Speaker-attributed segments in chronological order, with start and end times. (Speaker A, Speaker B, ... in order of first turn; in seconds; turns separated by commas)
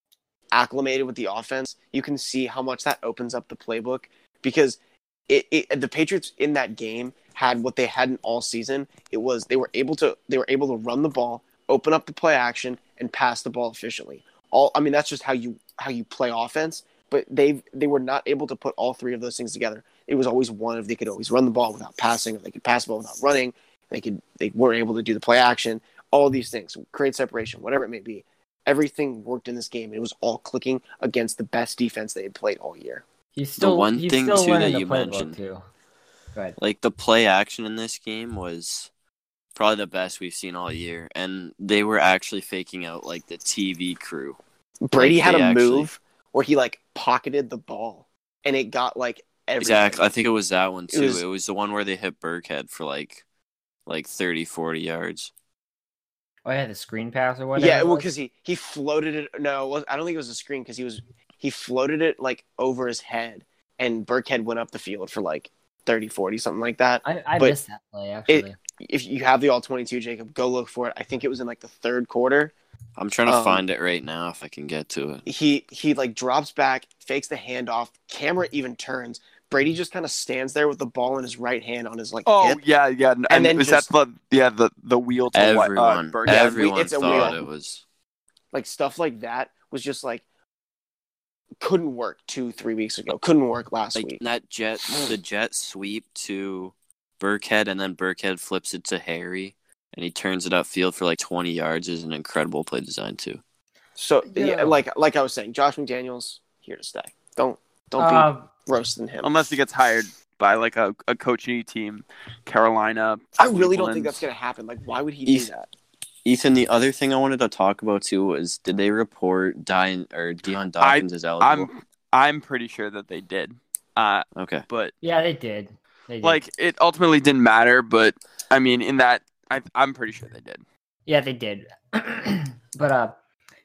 Speaker A: 0.5-33.0, Speaker B: 33.4-35.6, Speaker C: 33.6-35.4, Speaker C: 36.6-38.9, Speaker C: 39.5-44.4, Speaker A: 44.8-50.1, Speaker C: 45.0-45.9, Speaker C: 49.6-53.2, Speaker A: 50.9-51.2, Speaker C: 53.9-55.3, Speaker B: 56.4-58.1, Speaker A: 57.5-67.6, Speaker B: 67.0-68.6, Speaker A: 68.3-72.5, Speaker C: 73.0-75.2, Speaker A: 73.2-73.6, Speaker A: 75.2-82.6, Speaker D: 82.2-87.4, Speaker A: 83.3-83.9, Speaker C: 85.3-87.8, Speaker A: 86.2-87.4, Speaker A: 88.5-90.2, Speaker A: 91.6-94.2, Speaker C: 94.0-103.4, Speaker A: 104.0-109.6, Speaker B: 104.2-104.8, Speaker B: 108.0-108.5, Speaker D: 109.2-114.2, Speaker A: 113.4-115.7, Speaker C: 116.2-121.7, Speaker D: 120.8-124.9, Speaker C: 124.3-124.7, Speaker B: 125.0-126.4, Speaker D: 126.2-130.6, Speaker B: 131.1-133.1